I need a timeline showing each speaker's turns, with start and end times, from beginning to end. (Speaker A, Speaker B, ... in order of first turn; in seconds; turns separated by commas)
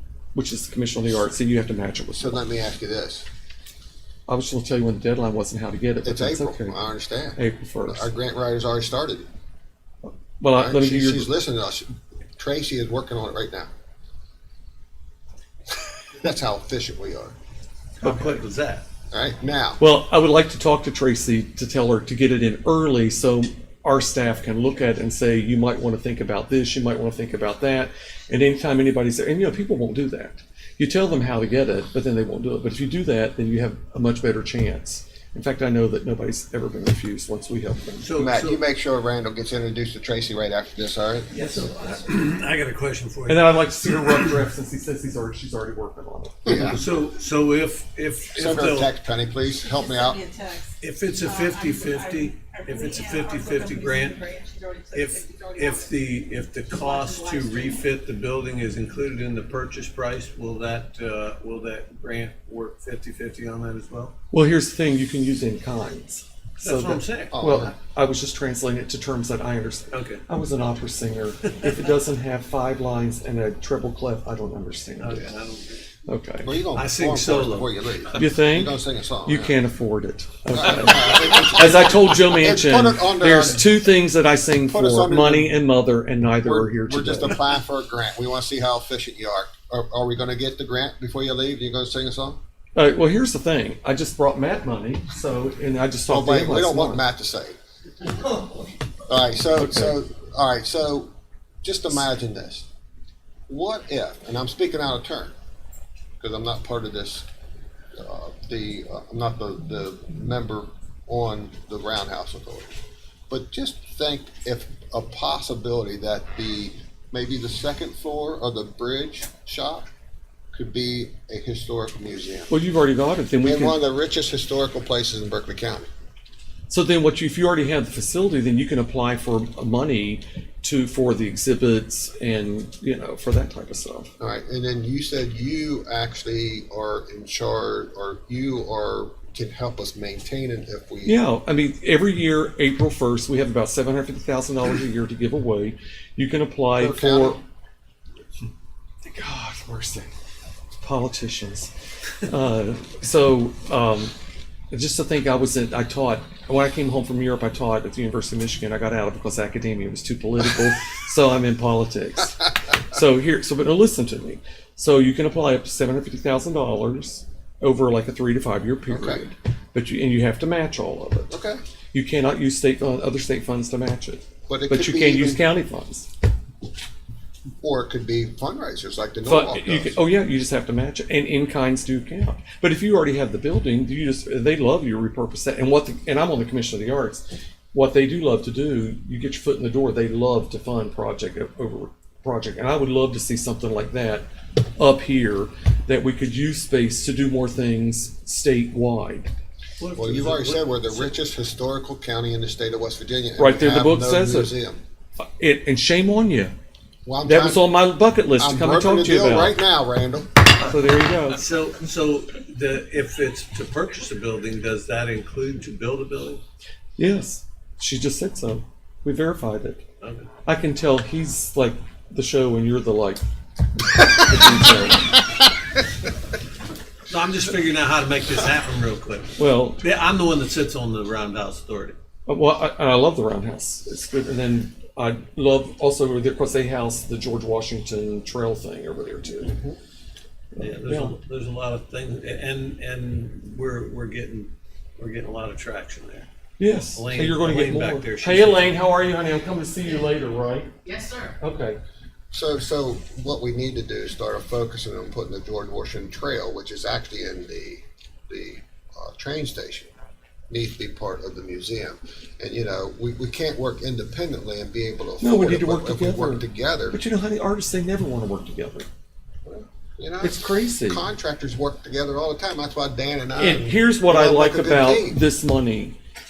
Speaker A: 0.3-2.4, Speaker B: 2.2-3.2, Speaker A: 4.3-6.8, Speaker B: 6.0-9.2, Speaker A: 7.4-8.1, Speaker A: 10.4-11.3, Speaker B: 10.5-13.7, Speaker B: 16.1-17.3, Speaker C: 18.0-18.8, Speaker A: 18.0-18.4, Speaker B: 19.1-19.8, Speaker A: 19.8-38.1, Speaker C: 38.0-38.6, Speaker B: 38.2-41.5, Speaker C: 41.3-44.4, Speaker A: 43.3-46.8, Speaker B: 46.5-46.8, Speaker C: 46.8-48.9, Speaker B: 48.4-50.2, Speaker D: 49.6-55.9, Speaker C: 50.8-54.3, Speaker C: 54.9-64.1, Speaker D: 56.7-57.9, Speaker A: 64.3-75.2, Speaker C: 66.6-67.7, Speaker B: 67.3-67.7, Speaker C: 69.9-70.2, Speaker C: 75.0-75.8, Speaker A: 76.1-76.5, Speaker B: 76.4-79.5, Speaker C: 76.7-78.2, Speaker A: 78.1-87.4, Speaker B: 80.5-83.7, Speaker B: 84.7-85.5, Speaker B: 86.4-92.4, Speaker A: 92.8-97.0, Speaker B: 96.1-97.5, Speaker B: 99.1-101.1, Speaker A: 99.5-99.9, Speaker B: 101.6-102.7, Speaker B: 103.5-105.3, Speaker B: 106.2-107.2, Speaker B: 107.9-112.7, Speaker B: 113.3-119.9, Speaker B: 120.5-122.5, Speaker A: 122.5-123.8, Speaker B: 123.4-125.9, Speaker A: 126.7-134.1, Speaker B: 134.2-141.2, Speaker A: 141.0-147.4, Speaker B: 146.7-147.4, Speaker A: 149.0-150.1, Speaker A: 150.8-151.7, Speaker A: 152.2-154.1, Speaker A: 154.7-171.3, Speaker B: 168.9-169.2, Speaker B: 171.3-171.6, Speaker A: 171.9-176.1, Speaker B: 174.5-175.4, Speaker B: 177.6-180.0, Speaker A: 179.2-199.3, Speaker C: 199.8-201.1, Speaker B: 199.9-204.8, Speaker A: 203.4-204.5, Speaker A: 205.4-206.5, Speaker B: 207.0-207.7, Speaker A: 207.2-209.6, Speaker B: 208.4-210.3, Speaker A: 210.6-211.4, Speaker C: 211.3-216.4, Speaker A: 217.0-219.8, Speaker C: 220.0-220.3, Speaker A: 220.4-223.2, Speaker A: 223.8-225.0, Speaker C: 227.1-231.9, Speaker A: 229.4-229.8, Speaker A: 232.3-239.6, Speaker A: 240.6-241.2, Speaker C: 240.6-246.3, Speaker A: 246.6-250.7, Speaker C: 246.8-248.8, Speaker A: 251.2-251.8, Speaker B: 252.3-259.9, Speaker B: 260.5-267.0, Speaker A: 265.2-268.9, Speaker B: 269.4-275.2, Speaker A: 270.2-271.0, Speaker A: 273.4-275.9